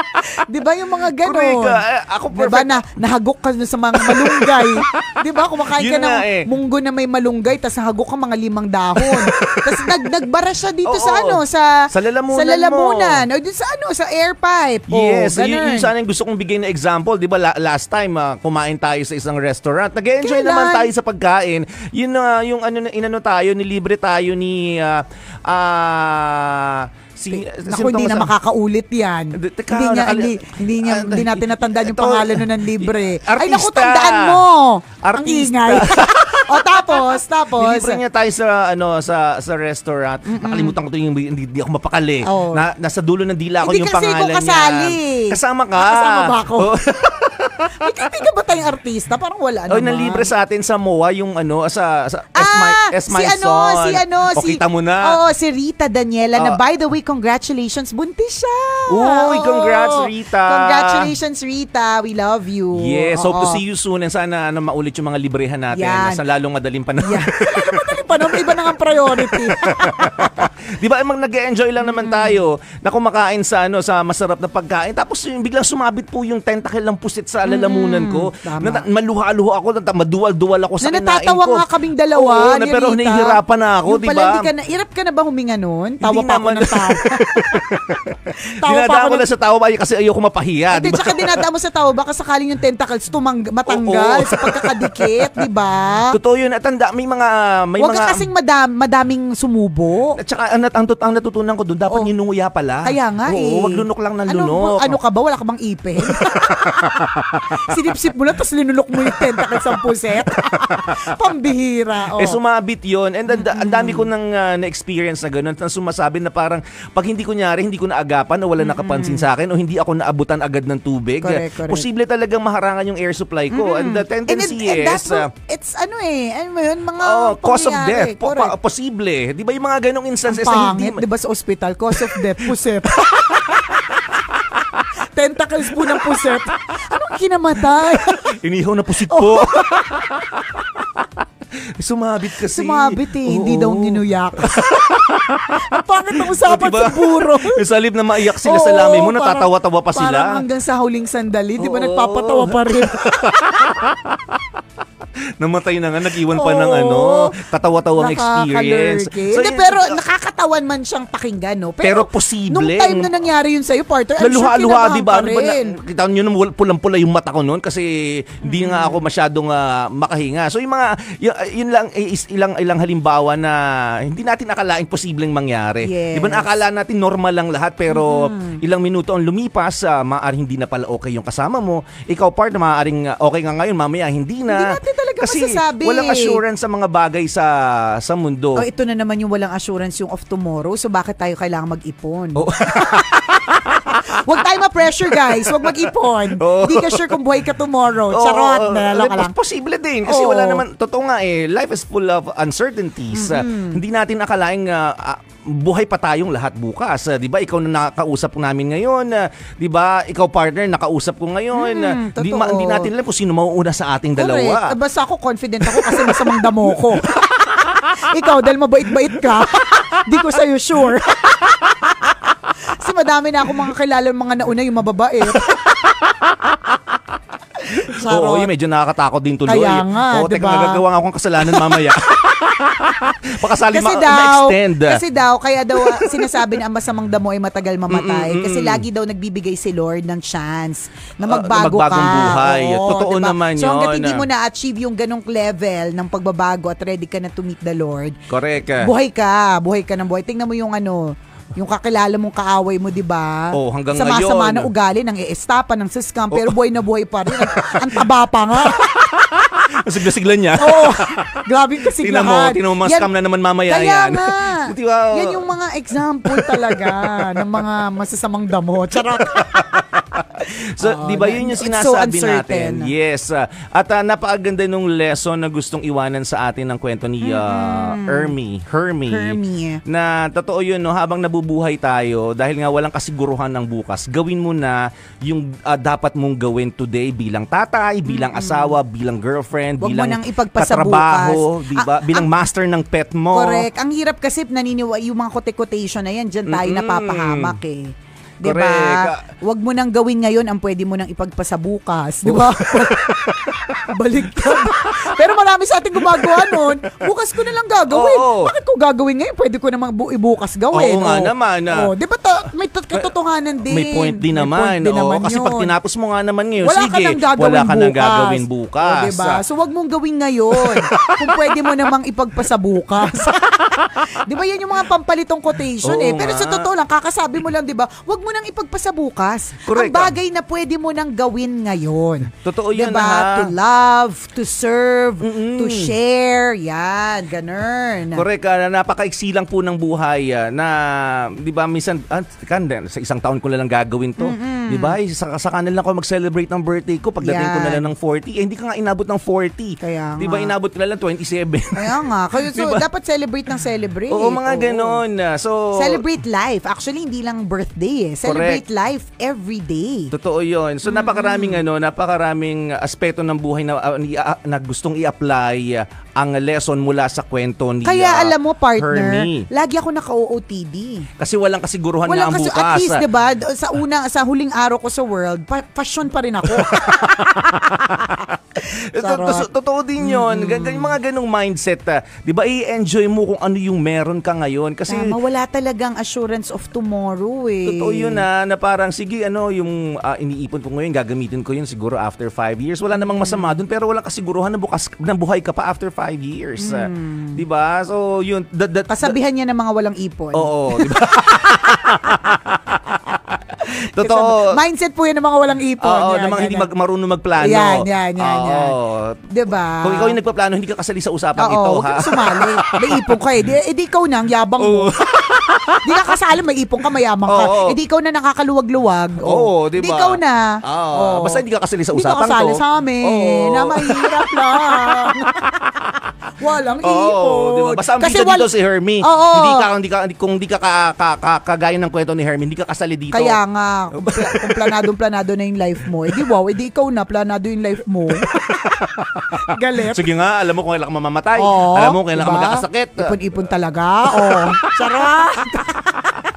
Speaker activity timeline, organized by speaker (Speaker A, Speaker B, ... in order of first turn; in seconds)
Speaker A: 0.3-1.8, 2.3-15.9, 20.2-20.9, 27.3-38.0, 40.3-40.8, 42.2-42.6, 43.6-46.7, 47.8-50.3, 52.4-63.6, 65.7-66.2, 67.0-70.5, 71.9-72.4, 77.5-78.8, 80.8-87.6, 88.6-89.2, 90.7-96.2, 97.8-100.2, 102.8-107.0, 107.5-112.4, 113.4-114.1, 118.6-119.3, 121.2-121.9, 123.5-128.6, 130.3-133.9, 135.1-138.4, 139.1-140.1, 142.5-144.7, 145.6-147.6, 148.4-153.3, 156.3-157.3, 158.0-165.8, 168.4-169.0, 175.8-176.5, 177.9-178.6, 184.5-186.4, 188.6-193.1, 194.1-199.3, 200.1-200.6, 203.2-203.8, 211.6-212.9, 214.2-217.2, 218.0-222.2, 222.7-225.8, 227.7-228.5, 229.5-230.8, 231.4-231.9, 233.7-248.2, 248.8-259.1, 260.6-263.1, 263.7-269.7, 270.4-272.9, 277.2-278.3, 279.1-279.8, 288.1-288.8, 289.8-292.3, 293.3-303.1, 303.8-315.7, 316.6-338.2, 344.2-345.0, 347.2-347.9, 349.8-350.5, 351.8-355.0, 355.8-360.1, 360.9-361.6, 367.9-371.1, 372.1-379.5, 380.0-381.0, 384.9-388.2, 393.2-393.6, 396.6-397.4, 398.9-401.4, 403.7-406.7, 407.4-408.8, 409.3-410.2, 411.4-414.9, 415.8-421.4, 421.9-425.4, 426.4-428.5, 429.0-429.7, 433.1-438.3, 439.4-440.1, 441.4-446.1
Speaker B: 1.2-2.8, 4.0-5.1, 5.7-6.5, 9.0-10.0, 10.8-13.2, 14.9-28.3, 29.4-34.4, 35.0-47.8, 49.7-55.2, 58.9-61.1, 62.8-84.5, 86.0-91.2, 93.7-95.5, 96.1-98.3, 100.2-105.0, 106.5-107.4, 112.2-125.3, 127.0-131.0, 132.0-132.3, 132.9-133.8, 135.8-136.1, 138.3-141.1, 141.8-145.6, 146.2-150.4, 151.6-154.4, 155.4-160.0, 161.8-163.2, 164.2-188.6, 192.4-194.0, 195.1-197.2, 198.1-214.8, 215.6-216.3, 217.2-217.5, 227.9-235.0, 235.7-236.5, 237.9-238.8, 241.2-244.3, 248.3-248.9, 253.5-254.7, 257.3-258.1, 258.8-261.4, 262.0-265.5, 266.3-267.4, 269.3-270.2, 270.8-293.7, 296.5-297.6, 298.4-299.2, 302.2-303.8, 304.4-304.7, 306.0-306.5, 307.9-308.5, 310.7-311.9, 313.7-319.4, 320.6-321.4, 325.8-326.7, 329.7-330.1, 332.4-333.5, 335.2-335.9, 338.1-352.8, 354.1-356.0, 358.2-358.6, 360.1-369.5, 371.2-373.0, 376.6-378.1, 378.9-385.2, 387.7-399.2, 400.3-403.4, 403.9-404.6, 405.8-409.2, 409.8-413.0, 414.6-416.0, 417.3-417.8, 419.2-425.4, 426.8-433.4, 434.0-434.8, 438.2-439.4, 439.9-443.2, 444.1-444.7